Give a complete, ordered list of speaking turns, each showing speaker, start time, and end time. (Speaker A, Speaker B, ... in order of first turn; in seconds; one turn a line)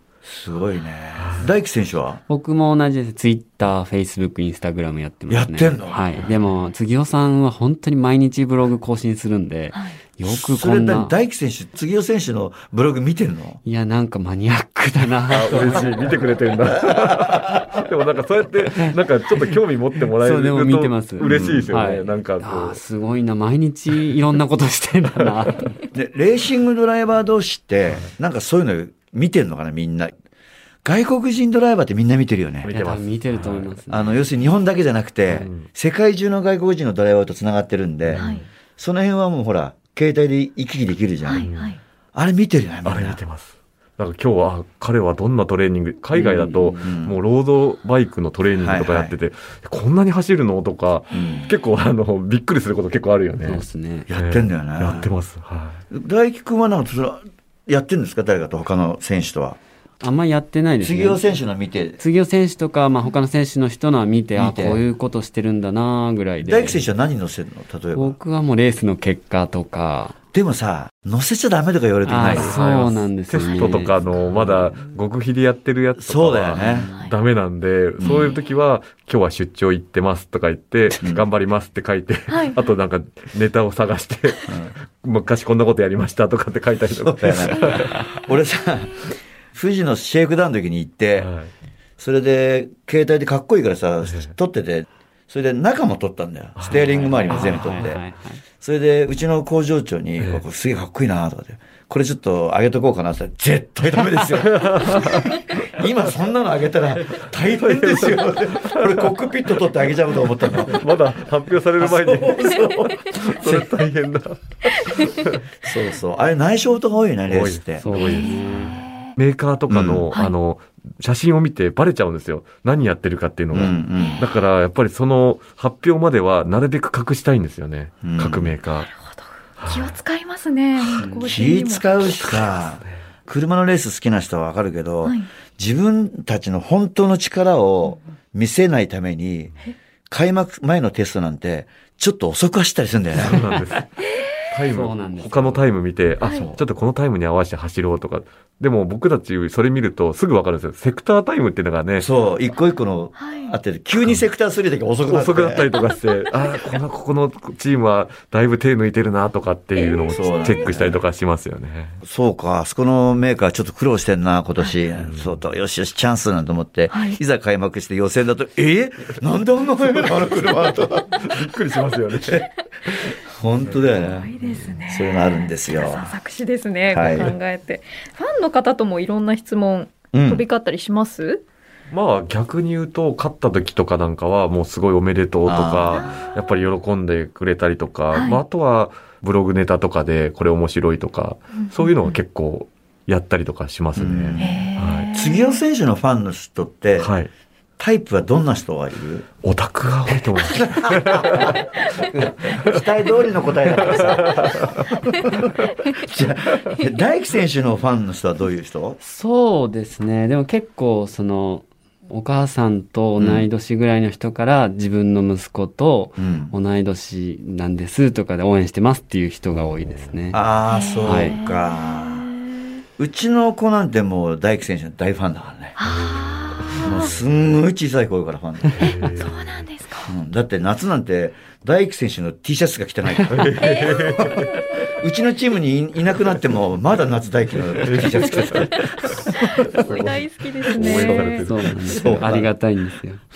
Speaker A: 0.2-2.2
Speaker B: 1.1-1.5
Speaker C: 2.3-11.1
Speaker A: 5.3-6.3
Speaker D: 9.7-10.0
Speaker A: 10.2-13.6
Speaker C: 13.6-16.1
Speaker B: 15.3-22.8
Speaker A: 16.8-17.7
Speaker C: 18.8-19.5
Speaker C: 20.1-25.8
Speaker A: 21.2-21.7
Speaker A: 25.9-30.1
Speaker A: 30.8-32.7
Speaker B: 32.6-33.8
Speaker C: 32.7-34.2
Speaker A: 33.9-38.2
Speaker B: 35.3-35.7
Speaker B: 38.1-38.4
Speaker D: 38.2-38.4
Speaker A: 38.8-41.5
Speaker D: 41.2-41.8
Speaker B: 41.4-41.8
Speaker A: 42.1-43.2
Speaker B: 42.8-55.8
Speaker C: 46.1-46.9
Speaker A: 46.8-47.2
Speaker A: 48.6-49.1
Speaker D: 51.1-51.5
Speaker A: 51.1-51.5
Speaker C: 53.4-54.1
Speaker A: 54.1-55.1
Speaker A: 55.9-59.6
Speaker C: 60.0-61.2
Speaker A: 60.8-62.0
Speaker C: 62.0-66.8
Speaker A: 64.4-64.8
Speaker A: 66.4-68.2
Speaker C: 67.9-70.1
Speaker A: 70.3-72.6
Speaker C: 72.0-74.7
Speaker B: 72.2-88.1
Speaker D: 73.4-73.7
Speaker A: 76.0-76.9
Speaker A: 78.0-78.3
Speaker A: 81.0-81.2
Speaker D: 82.3-82.6
Speaker A: 87.0-91.3
Speaker B: 91.2-91.5
Speaker A: 92.0-98.0
Speaker B: 94.1-94.3
Speaker B: 96.6-97.6
Speaker C: 96.7-98.4
Speaker A: 98.6-110.9
Speaker B: 104.4-105.4
Speaker B: 107.2-109.1
Speaker B: 110.6-115.4
Speaker A: 111.8-113.7
Speaker A: 115.6-117.8
Speaker B: 117.3-128.9
Speaker C: 117.8-118.8
Speaker D: 118.0-119.1
Speaker A: 119.7-120.1
Speaker A: 123.5-124.2
Speaker A: 128.0-128.6
Speaker D: 128.9-131.8
Speaker B: 129.6-130.0
Speaker C: 131.0-131.3
Speaker A: 131.2-139.5
Speaker B: 132.2-132.9
Speaker A: 140.1-143.4
Speaker B: 143.1-152.1
Speaker C: 144.7-145.6
Speaker D: 146.2-146.5
Speaker A: 146.2-146.6
Speaker A: 152.0-155.7
Speaker D: 153.2-153.6
Speaker B: 155.1-162.0
Speaker D: 159.8-160.7
Speaker A: 160.1-161.0
Speaker A: 162.0-171.5
Speaker B: 165.0-165.4
Speaker D: 166.9-167.2
Speaker B: 169.9-172.9
Speaker A: 173.1-174.3
Speaker D: 174.1-181.4
Speaker A: 174.9-176.1
Speaker A: 176.9-177.3
Speaker B: 176.9-177.3
Speaker A: 180.1-180.4
Speaker B: 181.9-195.1
Speaker A: 185.4-186.1
Speaker D: 185.9-186.2
Speaker D: 188.1-188.4
Speaker D: 191.6-192.1
Speaker A: 193.9-197.1
Speaker D: 194.4-195.6
Speaker B: 197.0-197.3
Speaker A: 197.8-199.2
Speaker B: 199.4-201.6
Speaker A: 200.4-209.0
Speaker B: 203.7-204.9
Speaker C: 209.0-220.4
Speaker A: 213.2-213.5
Speaker A: 216.2-216.5
Speaker B: 219.7-220.4
Speaker A: 220.3-222.3
Speaker D: 220.7-222.6
Speaker C: 221.1-221.4
Speaker A: 223.0-225.8
Speaker D: 225.8-227.1
Speaker B: 225.8-227.3
Speaker A: 226.8-229.0
Speaker B: 228.7-229.7
Speaker D: 228.9-230.1
Speaker A: 230.1-239.6
Speaker B: 233.3-234.7
Speaker D: 233.6-234.0
Speaker B: 237.7-242.4
Speaker D: 238.4-241.5
Speaker C: 241.2-243.2
Speaker A: 241.9-242.5